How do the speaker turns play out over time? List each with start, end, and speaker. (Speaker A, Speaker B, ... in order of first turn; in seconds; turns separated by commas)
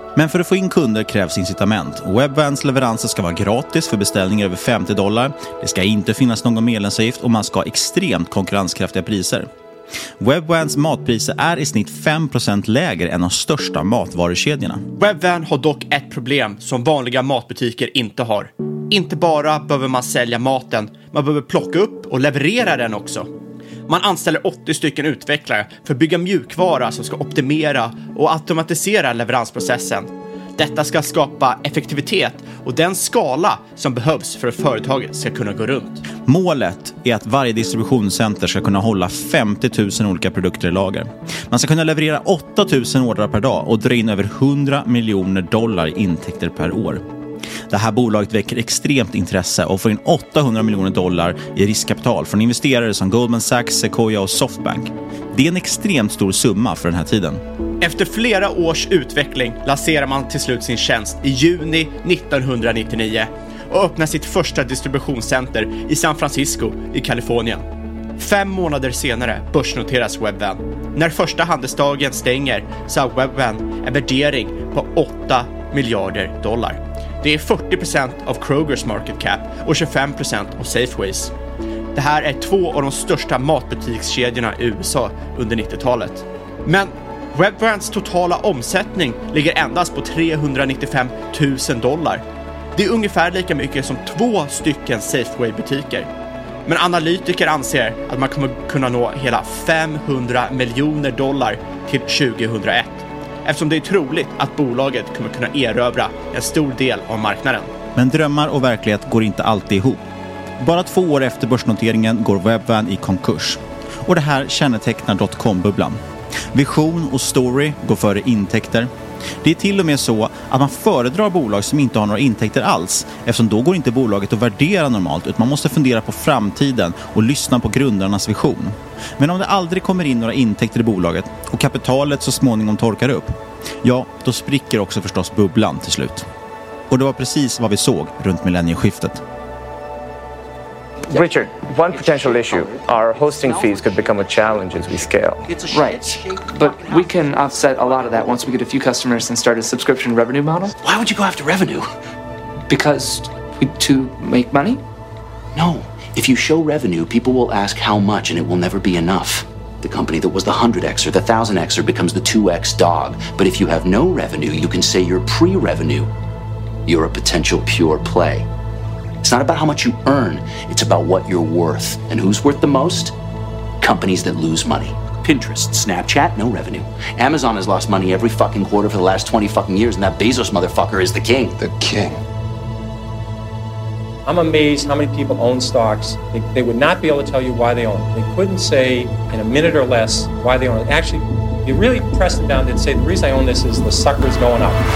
Speaker A: 0.2-9.5, Speaker A: 10.2-14.8, Speaker B: 15.0-23.3, Speaker B: 23.9-36.0, Speaker A: 36.2-47.0, Speaker A: 47.7-57.4, Speaker B: 57.8-67.6, Speaker B: 68.2-81.3, Speaker B: 82.0-92.2, Speaker B: 92.8-96.1, Speaker B: 96.7-107.7, Speaker A: 108.0-110.0, Speaker A: 110.6-116.0, Speaker A: 116.5-136.3, Speaker A: 136.9-139.2, Speaker C: 141.1-145.5, Speaker D: 141.2-144.1, Speaker D: 145.4-147.1, Speaker E: 145.7-150.7, Speaker D: 150.8-151.9, Speaker E: 152.7-154.8, Speaker D: 155.5-166.1, Speaker D: 166.9-168.5, Speaker D: 169.2-173.2, Speaker D: 173.8-182.1, Speaker F: 184.3-194.8